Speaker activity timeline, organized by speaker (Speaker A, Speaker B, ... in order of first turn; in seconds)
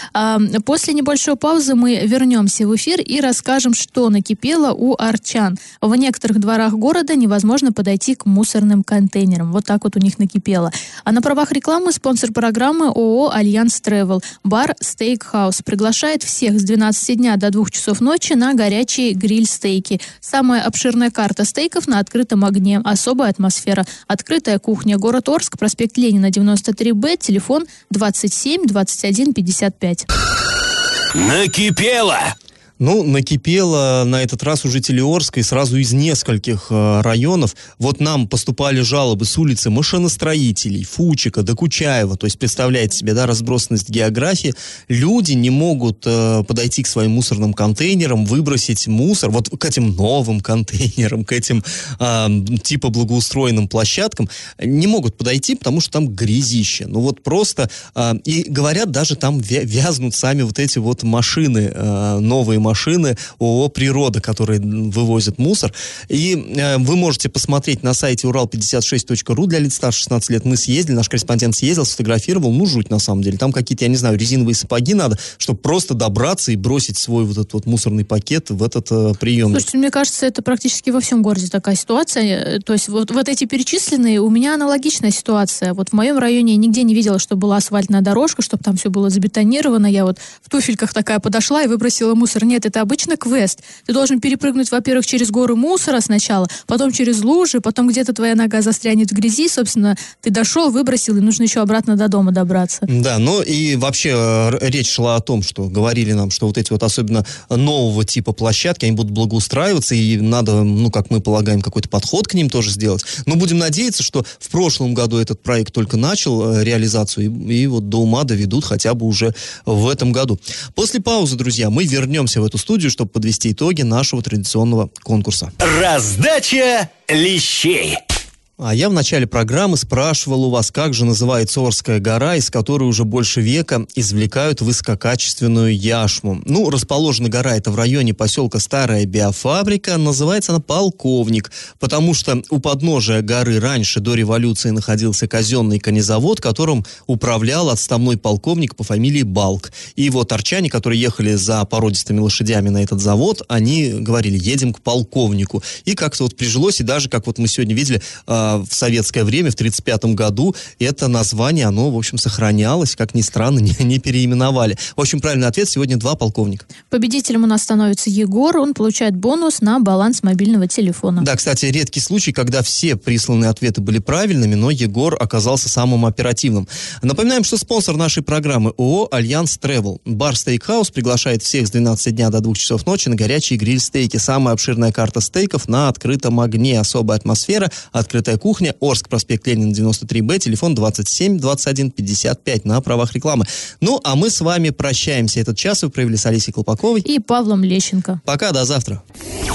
Speaker A: 0.1-30.1, 79.5-102.9, 166.9-171.3, 197.0-198.2
Speaker B: 31.1-32.3, 125.6-128.0
Speaker C: 32.8-79.7, 102.9-125.5, 128.6-166.7, 171.2-197.1, 198.2-199.0